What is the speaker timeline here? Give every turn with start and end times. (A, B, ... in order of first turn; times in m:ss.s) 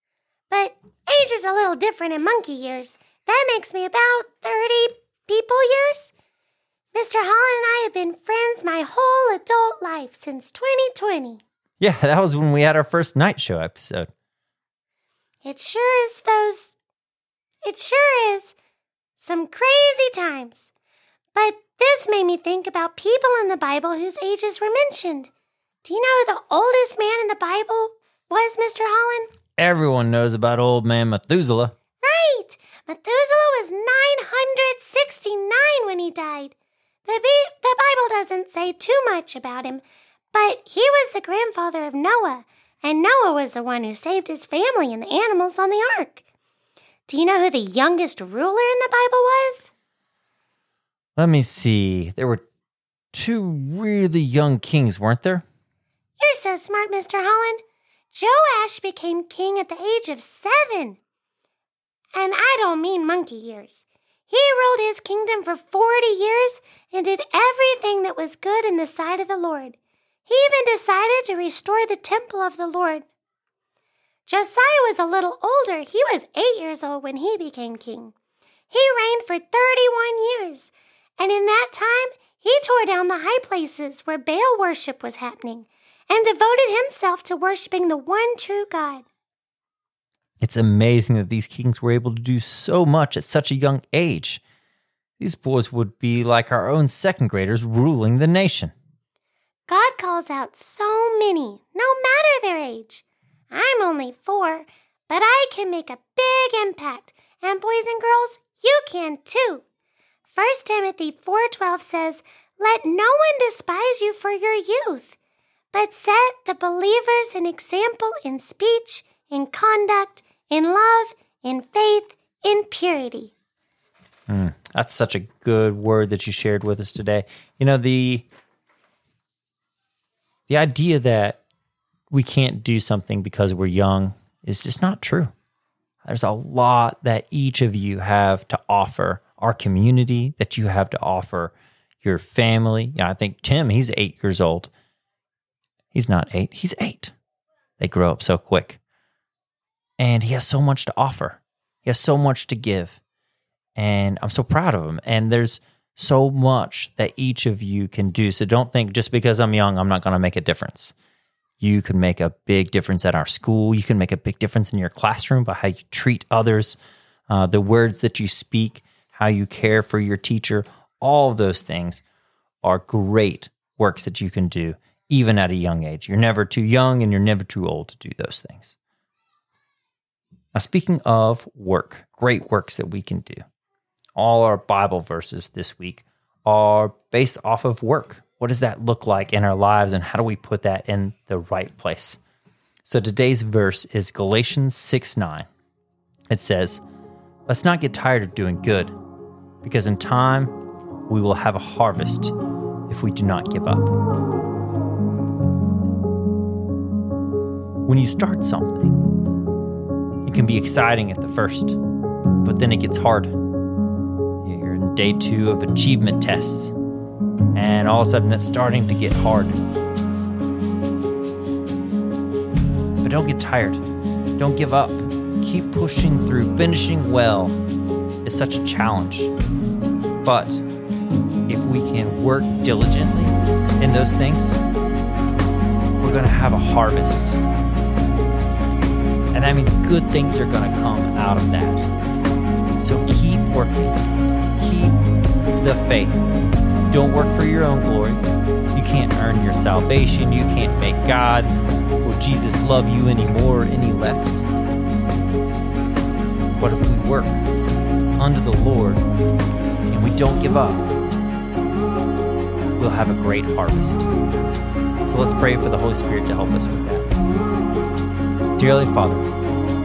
0:00.5-0:06.1 A
0:06.9-0:11.4 A
0:11.8-0:14.1 B
0:15.4-0:16.8 A
0:17.6-0:18.5 A
0:19.2-0:20.7 A
0:21.3-0:25.3 A
0:25.8-0:29.3 A
0:29.6-0:31.7 B
0:32.0-0:36.5 A
0:37.0-0:46.2 A
0:47.1-0:49.7 A
0:51.2-0:52.4 B
0:53.1-0:55.4 B
0:56.2-0:57.6 A
0:58.1-1:01.0 A
1:02.1-1:13.0 A
1:14.3-1:18.1 A
1:18.7-1:29.0 A
1:30.4-1:34.4 B
1:35.2-1:38.7 B
1:39.7-1:49.6 A
1:50.3-1:55.2 A
1:55.7-2:03.3 A
2:04.3-2:08.3 B
2:10.5-2:11.4 B
2:12.1-2:15.3 B
2:16.0-2:24.7 B
2:25.9-2:27.1 B
2:27.8-2:28.8 B
2:30.0-2:33.0 B
2:33.8-2:40.9 B
2:41.6-2:46.8 B
2:47.3-2:52.0 B
2:52.6-2:58.8 B
3:00.5-3:03.4 B
3:04.2-3:12.2 B
3:12.8-3:15.5 B
3:16.3-3:16.8 B
3:17.5-3:18.9 B
3:19.6-3:20.5 B
3:21.1-3:22.3 B
3:22.9-3:23.9 B
3:27.8-3:29.0 B
3:30.2-3:31.8 B
3:32.4-3:33.3 B
3:34.4-3:36.7 B
3:37.5-3:39.6 B
3:43.0-3:43.8 B
3:44.4-3:47.6 B
3:48.2-3:49.3 B
3:50.2-3:50.6 B
3:51.5-3:54.6 B
3:56.0-3:57.4 B
3:59.3-4:01.9 B
4:02.8-4:04.0 B
4:04.6-4:05.0 B
4:05.6-4:06.2 B
4:06.9-4:08.2 B
4:08.7-4:11.5 B
4:12.0-4:14.5 B
4:16.6-4:17.4 B
4:18.2-4:19.0 B
4:19.9-4:20.9 B
4:22.8-4:24.1 B
4:25.0-4:27.1 B
4:28.6-4:29.2 B